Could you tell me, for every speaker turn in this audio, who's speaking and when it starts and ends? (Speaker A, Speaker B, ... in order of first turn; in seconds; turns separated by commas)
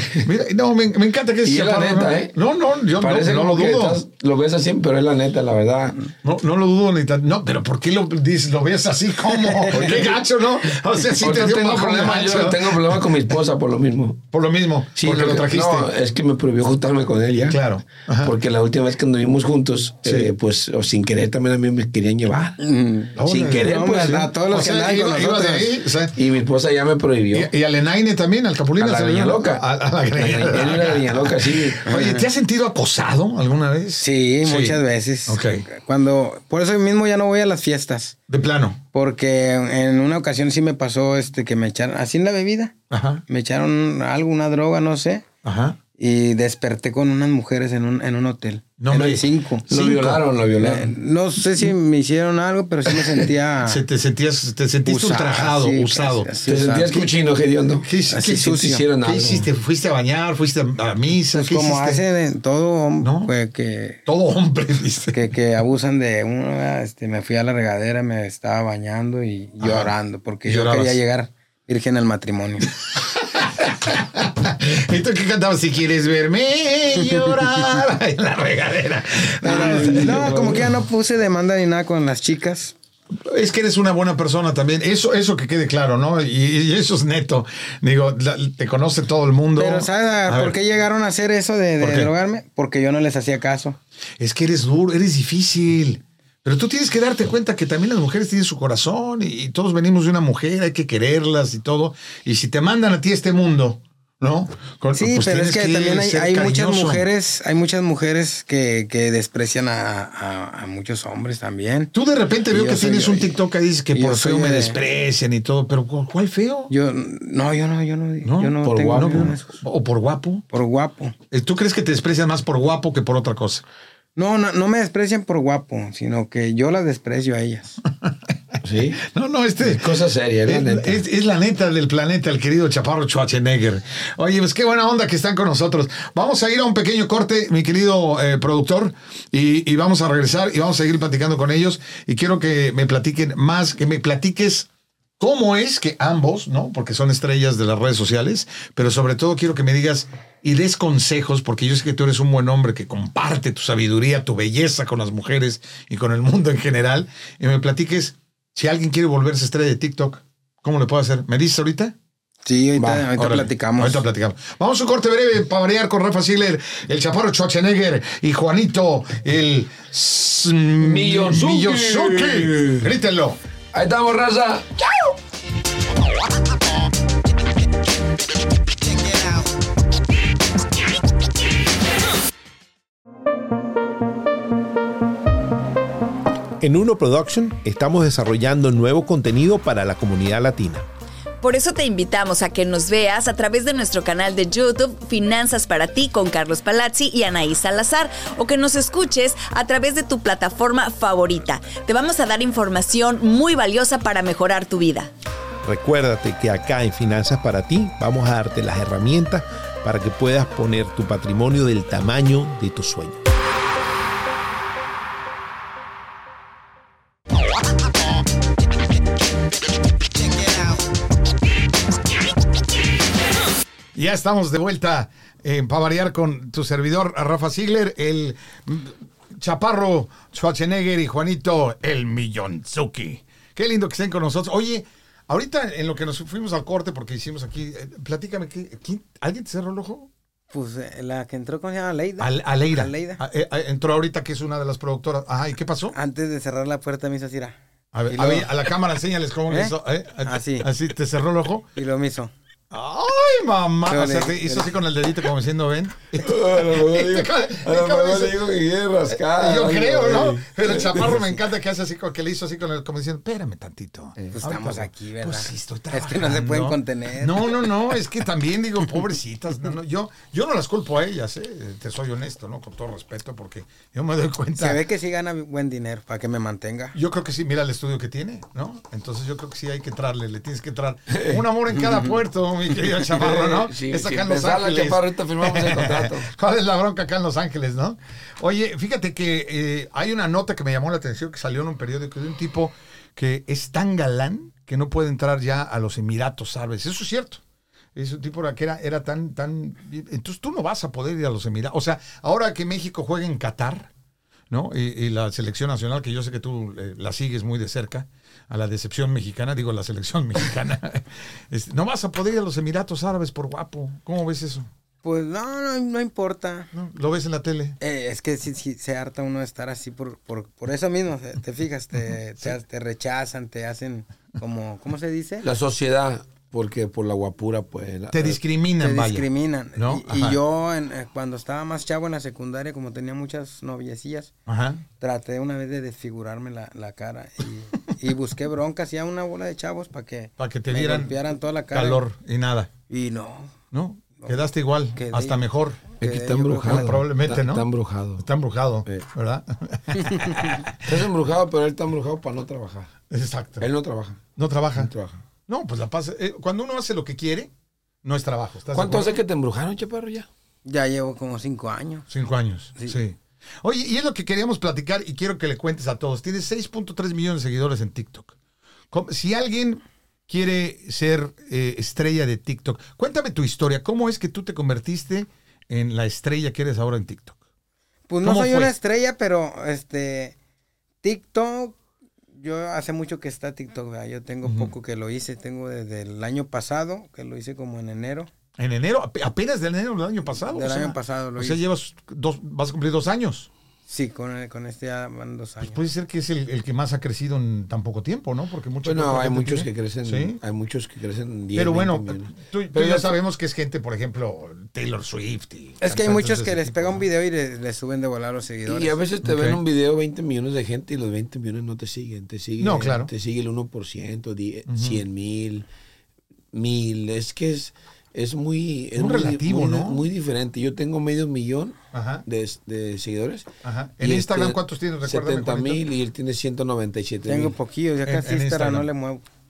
Speaker A: 0.2-4.0, Speaker B: 1.4-2.4, Speaker B: 3.0-6.0, Speaker A: 6.2-13.1, Speaker B: 9.7-10.1, Speaker B: 11.2-14.2, Speaker A: 14.3-15.9, Speaker B: 15.0-17.6, Speaker A: 17.5-18.3, Speaker B: 18.2-22.6, Speaker A: 20.1-20.3, Speaker C: 22.6-25.7, Speaker A: 23.2-26.2, Speaker B: 23.2-24.3, Speaker B: 26.1-27.5, Speaker A: 27.3-35.6, Speaker B: 28.8-31.8, Speaker C: 31.9-32.3, Speaker C: 34.0-38.2, Speaker A: 38.3-38.8, Speaker C: 38.9-42.7, Speaker A: 42.9-43.2, Speaker C: 43.3-45.2, Speaker A: 45.5-45.8, Speaker C: 46.0-49.7, Speaker A: 48.8-50.2, Speaker B: 49.7-51.0, Speaker C: 50.6-53.8, Speaker A: 53.6-56.3, Speaker C: 54.9-57.0, Speaker B: 56.5-59.5, Speaker A: 57.8-62.0, Speaker C: 58.1-58.9, Speaker C: 61.3-64.0, Speaker A: 63.0-63.3, Speaker A: 64.1-65.2, Speaker C: 65.1-72.7, Speaker A: 69.6-69.9, Speaker A: 70.5-71.0, Speaker A: 73.0-80.7, Speaker C: 79.4-82.8, Speaker B: 79.5-80.7, Speaker A: 83.3-90.5, Speaker C: 89.6-93.8, Speaker A: 91.8-92.1, Speaker A: 94.2-107.0, Speaker C: 105.0-111.9, Speaker A: 111.9-116.7, Speaker C: 112.5-113.3, Speaker C: 113.9-114.8, Speaker C: 116.7-119.6, Speaker A: 118.2-120.5, Speaker B: 118.6-119.3, Speaker C: 120.5-121.2, Speaker A: 121.3-123.6, Speaker C: 124.2-127.8, Speaker B: 128.6-129.0, Speaker A: 129.0-144.7, Speaker B: 129.6-131.0, Speaker A: 145.2-161.9, Speaker C: 162.4-164.0, Speaker B: 162.8-163.0, Speaker A: 163.2-173.4, Speaker B: 170.8-172.9, Speaker B: 173.7-175.2, Speaker D: 186.6-190.9, Speaker E: 191.4-205.1, Speaker D: 205.7-213.2, Speaker A: 223.9-240.1, Speaker C: 240.5-243.2, Speaker A: 242.2-245.9, Speaker C: 245.9-247.6, Speaker A: 247.9-251.7, Speaker C: 248.1-248.5, Speaker C: 249.5-250.7, Speaker C: 251.8-252.3, Speaker A: 252.7-258.4, Speaker C: 253.9-254.7, Speaker B: 256.2-261.2, Speaker A: 259.1-274.8, Speaker C: 264.3-267.7, Speaker C: 274.6-277.0, Speaker A: 276.9-297.4, Speaker B: 281.1-281.4, Speaker B: 282.9-286.3, Speaker A: 297.9-303.9, Speaker A: 304.5-314.7, Speaker C: 315.0-316.7, Speaker A: 316.7-317.8, Speaker C: 317.8-325.5, Speaker B: 325.4-328.4, Speaker A: 328.1-330.4, Speaker C: 328.8-334.3, Speaker A: 334.5-334.8, Speaker C: 335.0-342.0, Speaker A: 340.4-341.2, Speaker A: 341.7-342.7, Speaker C: 342.9-343.5, Speaker A: 343.7-345.9, Speaker C: 344.2-346.9, Speaker B: 346.0-348.3, Speaker A: 346.6-351.0, Speaker C: 350.0-350.3, Speaker B: 350.8-352.9, Speaker A: 353.1-353.7, Speaker B: 353.6-354.2, Speaker A: 354.4-354.9, Speaker B: 354.8-355.2, Speaker A: 355.5-357.5, Speaker A: 358.0-359.1, Speaker B: 358.7-360.3, Speaker C: 360.6-362.1, Speaker A: 362.1-368.3, Speaker A: 368.9-377.4, Speaker C: 378.1-380.4, Speaker A: 378.2-378.7, Speaker C: 381.0-381.8, Speaker C: 382.4-388.3, Speaker A: 384.4-384.7, Speaker A: 388.6-393.5, Speaker C: 390.5-391.6, Speaker C: 393.9-395.8, Speaker A: 395.6-400.4, Speaker B: 398.8-403.2, Speaker A: 401.5-407.1, Speaker C: 405.8-409.0, Speaker B: 408.7-415.7, Speaker A: 409.2-409.6, Speaker A: 412.6-413.1, Speaker A: 414.7-415.0, Speaker B: 416.5-423.5, Speaker A: 419.0-420.0, Speaker A: 421.9-422.2, Speaker A: 423.6-425.9, Speaker B: 424.0-427.6, Speaker C: 427.3-429.2, Speaker A: 428.1-428.9